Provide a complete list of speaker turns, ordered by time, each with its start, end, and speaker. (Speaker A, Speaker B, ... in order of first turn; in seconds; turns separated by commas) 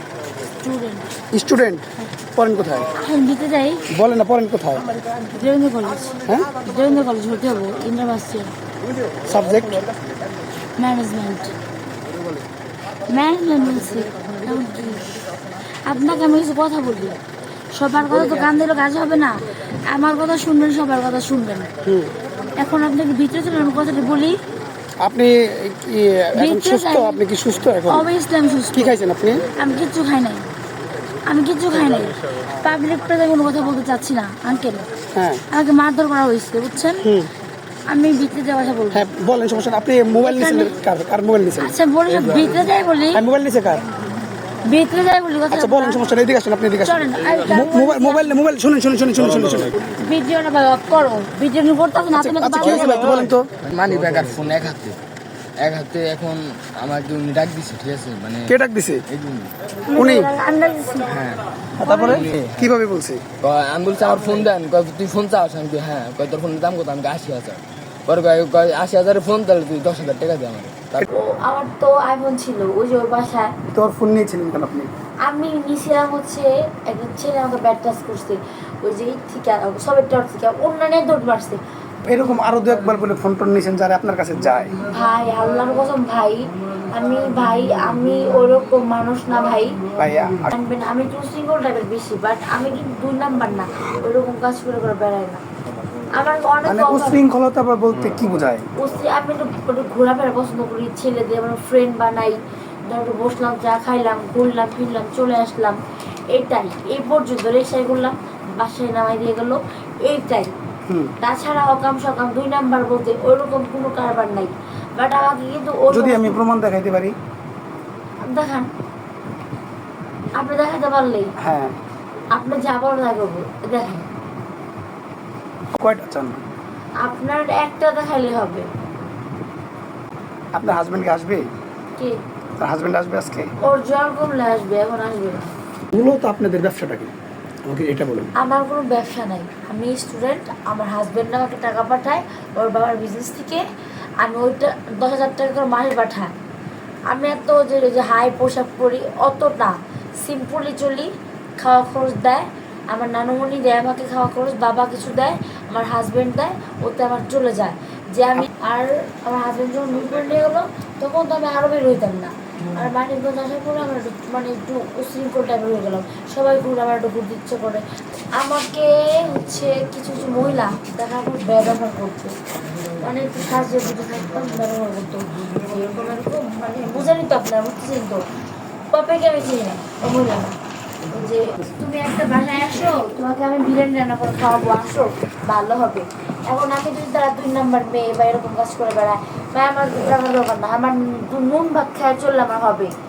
Speaker A: 0.6-1.1, Speaker B: 1.3-2.9, Speaker A: 3.0-3.9, Speaker B: 3.9-4.9, Speaker A: 5.3-8.5, Speaker B: 9.2-9.9, Speaker A: 10.8-11.6, Speaker A: 13.1-15.0, Speaker A: 15.9-17.2, Speaker A: 17.7-21.7, Speaker B: 21.8-22.1, Speaker A: 22.6-24.4, Speaker B: 25.0-28.1, Speaker A: 26.4-27.2, Speaker A: 27.9-29.0, Speaker B: 28.7-29.4, Speaker A: 29.5-30.5, Speaker A: 31.2-34.9, Speaker B: 35.1-35.4, Speaker A: 35.5-37.1, Speaker B: 37.0-37.3, Speaker A: 37.9-39.1, Speaker B: 38.9-41.8, Speaker A: 40.2-40.8, Speaker A: 41.6-43.2, Speaker C: 42.2-42.6, Speaker B: 43.1-43.8, Speaker A: 44.6-46.1, Speaker B: 45.5-49.8, Speaker A: 46.8-48.4, Speaker A: 50.0-53.2, Speaker B: 52.1-53.5, Speaker C: 52.7-55.0, Speaker C: 55.6-58.5, Speaker B: 58.5-59.0, Speaker C: 59.1-59.5, Speaker A: 59.9-61.1, Speaker B: 60.0-60.3, Speaker C: 61.0-61.4, Speaker B: 61.8-63.2, Speaker A: 61.8-62.2, Speaker C: 62.0-62.7, Speaker C: 63.4-71.1, Speaker A: 71.1-73.5, Speaker B: 73.7-74.9, Speaker A: 75.2-81.6, Speaker B: 82.0-84.8, Speaker A: 84.9-89.8, Speaker B: 90.0-90.5, Speaker A: 90.5-95.4, Speaker A: 96.1-97.2, Speaker B: 96.6-98.7, Speaker A: 98.8-105.8, Speaker A: 106.3-110.5, Speaker B: 110.9-111.1, Speaker A: 111.2-116.4, Speaker B: 115.9-117.2, Speaker A: 118.3-118.7, Speaker A: 120.4-121.3, Speaker B: 121.4-121.8, Speaker A: 122.3-124.0, Speaker B: 125.8-126.4, Speaker A: 127.0-128.7, Speaker B: 130.5-131.5, Speaker B: 132.6-133.5, Speaker A: 133.6-135.5, Speaker B: 135.9-137.1, Speaker B: 137.7-138.3, Speaker A: 138.4-143.6, Speaker A: 144.2-146.3, Speaker A: 147.1-167.8, Speaker A: 168.4-172.3, Speaker A: 173.0-178.2, Speaker A: 178.9-180.6, Speaker A: 181.1-192.9